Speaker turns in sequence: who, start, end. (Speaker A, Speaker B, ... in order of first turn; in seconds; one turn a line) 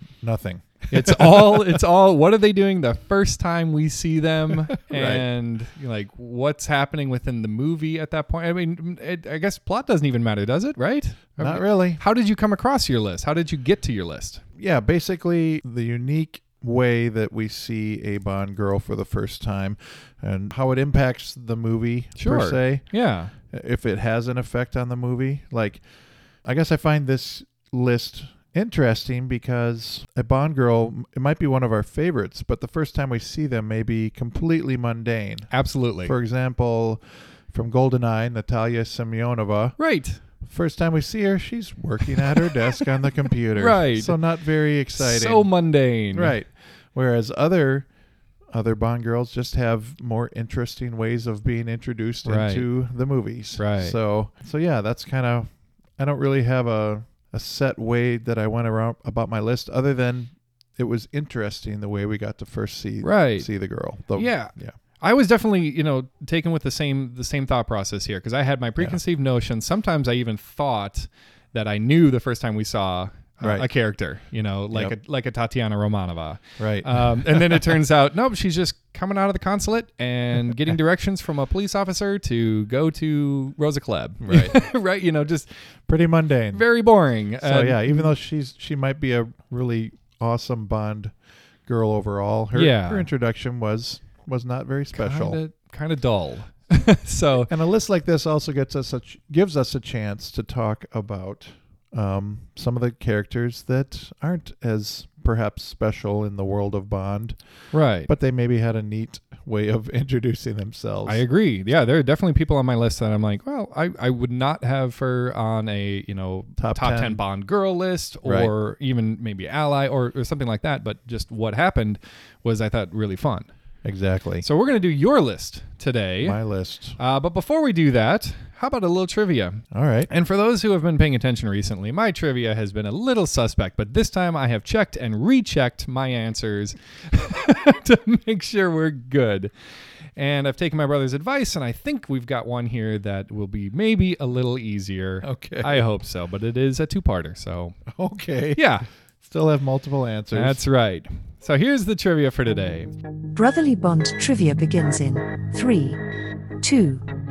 Speaker A: 0.2-1.8
Speaker B: 0.9-14.4
Speaker A: 4.9-5.2
Speaker A: 11.4-12.0
Speaker A: 14.6-22.8
Speaker B: 22.2-23.3
Speaker A: 23.5-25.8
Speaker A: 26.4-35.5
Speaker B: 35.5-36.1
Speaker A: 36.0-39.8
Speaker B: 39.8-40.2
Speaker A: 40.4-45.5
Speaker B: 43.5-44.1
Speaker B: 44.9-46.3
Speaker A: 46.1-47.9
Speaker A: 48.5-64.7
Speaker B: 52.2-52.7
Speaker B: 53.6-54.0
Speaker B: 63.0-63.5
Speaker B: 64.1-85.5
Speaker A: 73.4-73.7
Speaker A: 76.6-77.8
Speaker A: 84.2-84.7
Speaker A: 85.9-86.6
Speaker B: 86.5-88.1
Speaker A: 87.4-91.1
Speaker A: 91.7-95.4
Speaker B: 92.5-93.1
Speaker B: 94.9-97.5
Speaker A: 97.5-107.4
Speaker B: 107.7-108.1
Speaker A: 108.0-111.2
Speaker B: 111.0-123.5
Speaker A: 116.6-117.2
Speaker A: 118.2-118.5
Speaker A: 123.8-124.5
Speaker B: 124.4-126.4
Speaker A: 126.2-127.0
Speaker B: 127.0-139.5
Speaker A: 129.7-130.1
Speaker B: 140.1-147.8
Speaker A: 145.2-145.8
Speaker A: 147.9-148.6
Speaker B: 148.5-148.8
Speaker A: 149.2-150.6
Speaker B: 150.3-152.9
Speaker C: 153.3-156.0
Speaker C: 156.6-157.0